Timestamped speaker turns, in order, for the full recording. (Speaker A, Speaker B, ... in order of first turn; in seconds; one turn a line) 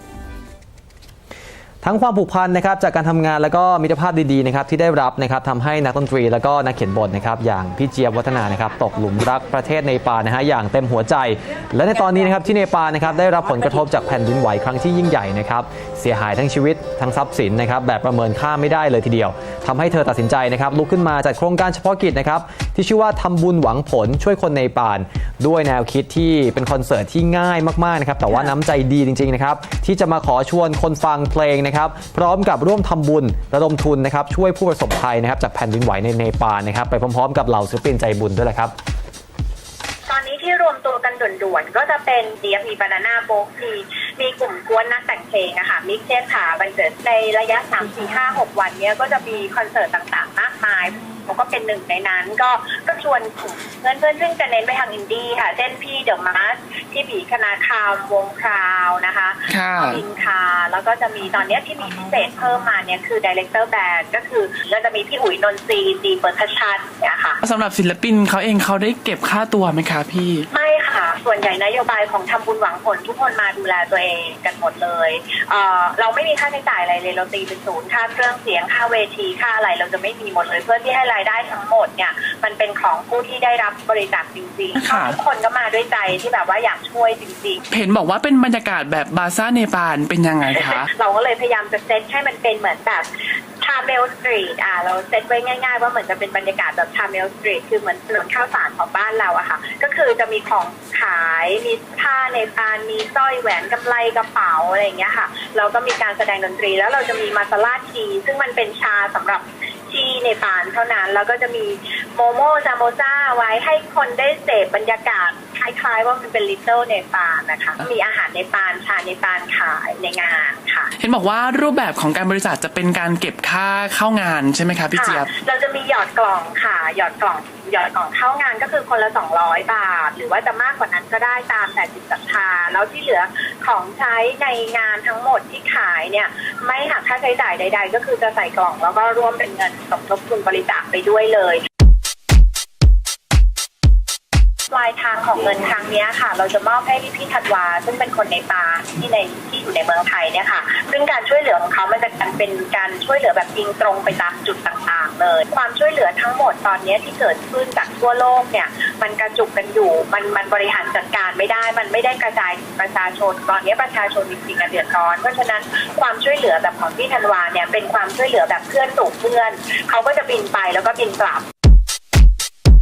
Speaker A: 1.8-38.7
Speaker B: 40.1-67.4
Speaker C: 59.5-60.0
Speaker C: 67.4-70.5
Speaker B: 70.5-87.6
Speaker C: 84.8-85.2
Speaker C: 87.7-90.9
Speaker B: 90.6-93.1
Speaker B: 93.6-120.9
Speaker C: 121.0-125.3
Speaker B: 124.9-141.6
Speaker B: 144.7-171.4